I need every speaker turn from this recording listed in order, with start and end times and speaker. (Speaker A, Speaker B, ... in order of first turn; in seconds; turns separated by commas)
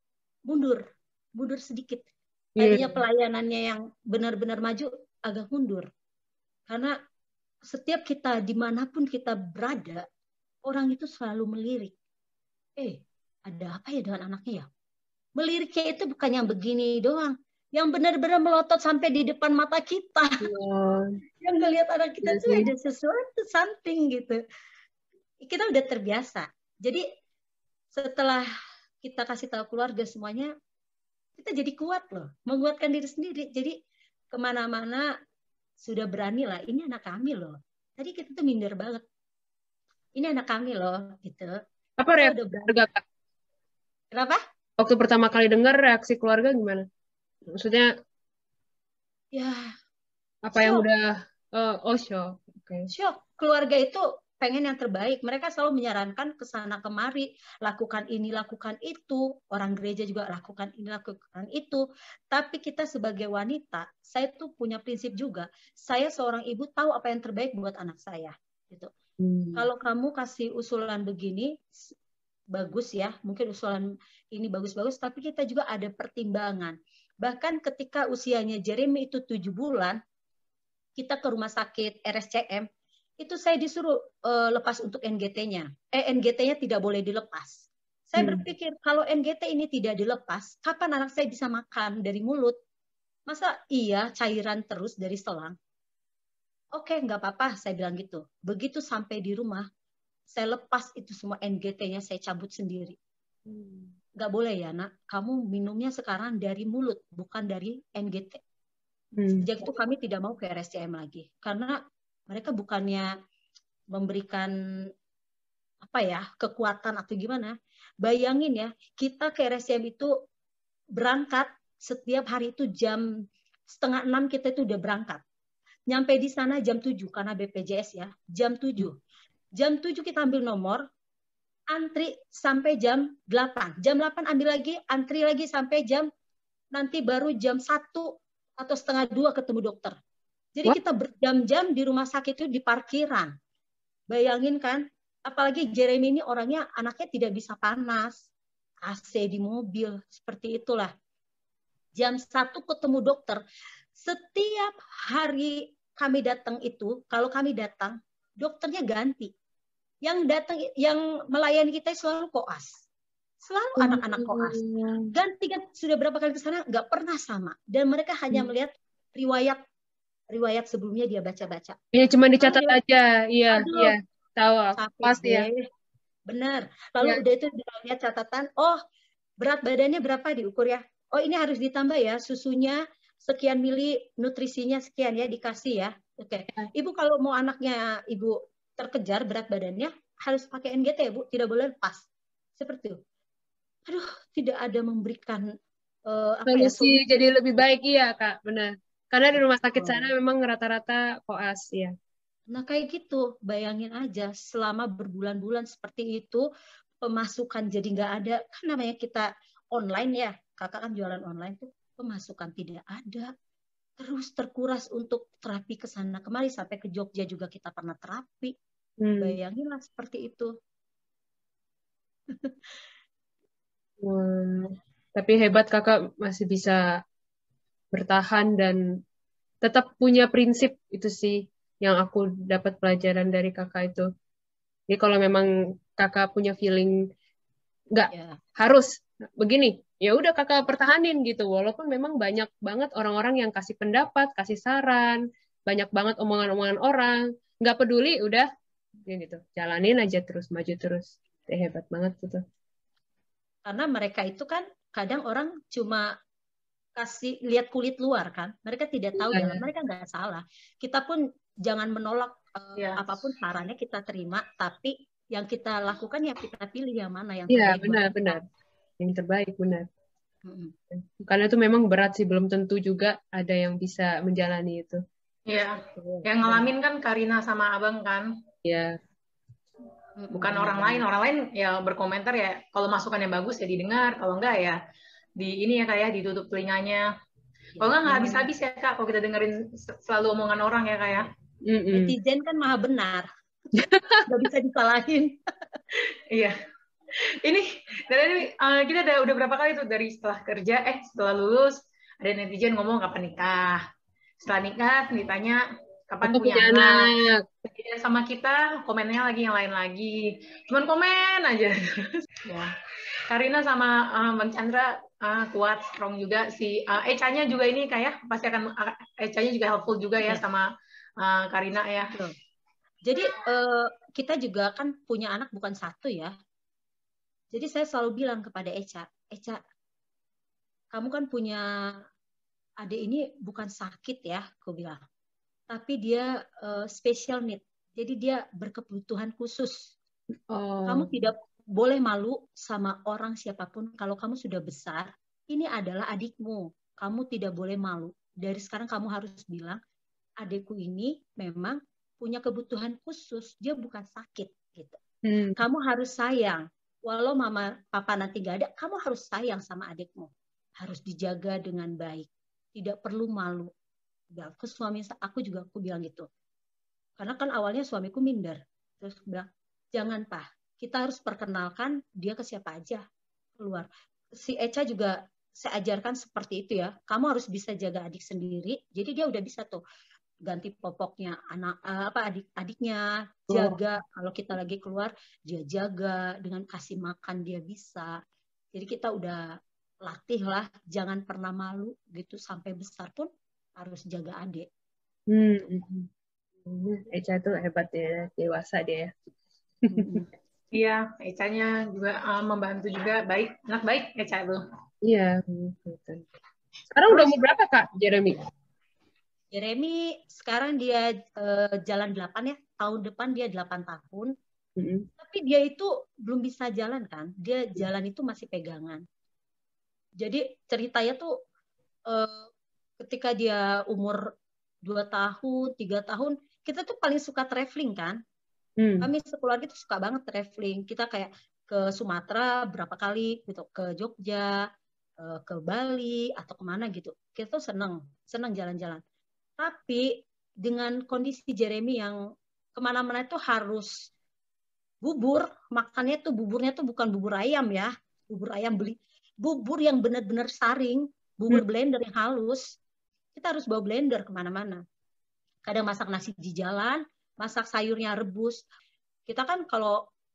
Speaker A: 0.5-0.8, Speaker A: 1.4-2.1, Speaker B: 2.6-3.0, Speaker A: 2.6-5.9, Speaker A: 6.7-6.9, Speaker A: 7.7-10.1, Speaker A: 10.7-11.9, Speaker A: 12.8-14.7, Speaker A: 15.4-20.5, Speaker B: 20.4-21.1, Speaker A: 21.4-24.4, Speaker B: 22.2-22.7, Speaker A: 25.4-27.1, Speaker A: 27.9-28.5, Speaker A: 29.0-30.5, Speaker A: 31.4-33.8, Speaker A: 34.3-35.1, Speaker A: 35.8-39.0, Speaker A: 40.2-41.6, Speaker B: 42.0-43.0, Speaker A: 42.1-42.9, Speaker A: 44.1-44.4, Speaker B: 44.8-46.9, Speaker B: 47.5-47.9, Speaker A: 49.3-49.7, Speaker B: 50.5-52.9, Speaker A: 50.5-50.9, Speaker A: 52.9-68.9, Speaker B: 69.2-69.7, Speaker A: 69.5-71.9, Speaker A: 72.5-80.0, Speaker A: 81.0-82.7, Speaker A: 83.2-92.6, Speaker B: 88.2-88.4, Speaker A: 93.3-95.6, Speaker A: 96.8-99.7, Speaker A: 100.3-103.0, Speaker B: 103.5-103.9, Speaker A: 104.2-108.4, Speaker B: 109.2-109.5, Speaker A: 109.4-111.8, Speaker A: 112.3-113.1, Speaker A: 113.9-114.5, Speaker A: 115.8-120.1, Speaker A: 121.0-123.1, Speaker A: 123.7-125.2, Speaker A: 125.9-129.0, Speaker A: 129.6-130.8, Speaker A: 131.7-136.1, Speaker A: 136.7-140.0, Speaker A: 140.6-143.3, Speaker A: 144.1-148.3, Speaker A: 148.8-150.9, Speaker A: 152.0-153.4, Speaker A: 154.0-159.3, Speaker A: 160.0-162.8, Speaker A: 163.4-164.6, Speaker B: 163.8-165.1, Speaker A: 165.1-169.6, Speaker A: 170.3-171.8, Speaker B: 171.9-175.5, Speaker A: 172.4-172.8, Speaker A: 173.5-174.0, Speaker A: 174.8-175.6, Speaker A: 176.3-178.8, Speaker A: 179.4-192.1, Speaker A: 192.6-193.0, Speaker A: 193.9-195.5, Speaker A: 196.1-197.0, Speaker B: 196.5-201.9, Speaker A: 199.8-200.1, Speaker A: 202.5-206.5, Speaker A: 207.0-213.3, Speaker A: 214.0-218.5, Speaker B: 219.0-219.4, Speaker A: 219.2-220.5, Speaker A: 222.3-222.6, Speaker B: 224.0-227.0, Speaker B: 227.9-228.8, Speaker B: 229.6-234.1, Speaker B: 234.9-237.0, Speaker B: 237.9-248.5, Speaker A: 238.1-238.4, Speaker B: 249.1-252.4, Speaker A: 253.7-256.1, Speaker A: 257.0-268.4, Speaker B: 259.2-259.6, Speaker C: 262.8-263.0, Speaker B: 267.5-268.4, Speaker B: 269.0-269.9, Speaker A: 270.4-270.7, Speaker B: 270.9-275.0, Speaker C: 275.5-278.3, Speaker A: 276.0-276.7, Speaker B: 278.6-279.0, Speaker A: 280.2-281.0, Speaker C: 280.3-284.8, Speaker C: 285.4-287.1, Speaker A: 287.8-288.5, Speaker C: 287.8-291.3, Speaker B: 291.7-292.1, Speaker A: 291.9-293.3, Speaker B: 293.8-294.3, Speaker A: 294.3-295.4, Speaker C: 295.9-296.6, Speaker C: 297.1-303.8, Speaker C: 304.4-307.1, Speaker B: 306.2-307.4, Speaker C: 307.6-312.8, Speaker C: 313.3-320.7, Speaker C: 321.2-322.1, Speaker A: 323.1-326.3, Speaker A: 327.5-329.6, Speaker A: 330.9-332.0, Speaker A: 332.8-335.0, Speaker A: 335.7-339.9, Speaker B: 340.5-341.1, Speaker A: 340.9-349.8, Speaker A: 350.4-355.0, Speaker B: 355.2-355.6, Speaker A: 355.6-363.7, Speaker A: 364.3-366.3, Speaker A: 367.2-373.0, Speaker A: 373.6-379.8, Speaker A: 380.5-388.1, Speaker B: 383.5-383.8, Speaker A: 388.7-389.5, Speaker A: 390.1-394.7, Speaker B: 395.3-396.1, Speaker B: 396.6-399.1, Speaker B: 399.9-400.2, Speaker A: 399.9-400.3, Speaker C: 400.7-404.6, Speaker B: 405.0-406.2, Speaker B: 406.9-408.4, Speaker A: 407.1-407.4, Speaker A: 409.5-414.3, Speaker B: 414.8-415.1, Speaker A: 415.2-419.0, Speaker A: 420.2-421.3, Speaker A: 422.1-424.3, Speaker A: 424.9-428.2, Speaker B: 428.8-429.1, Speaker A: 429.0-434.6, Speaker A: 435.2-439.0, Speaker A: 439.6-442.2, Speaker A: 442.8-444.1, Speaker A: 445.0-452.8, Speaker A: 453.4-454.8, Speaker A: 455.7-458.6, Speaker A: 459.3-460.0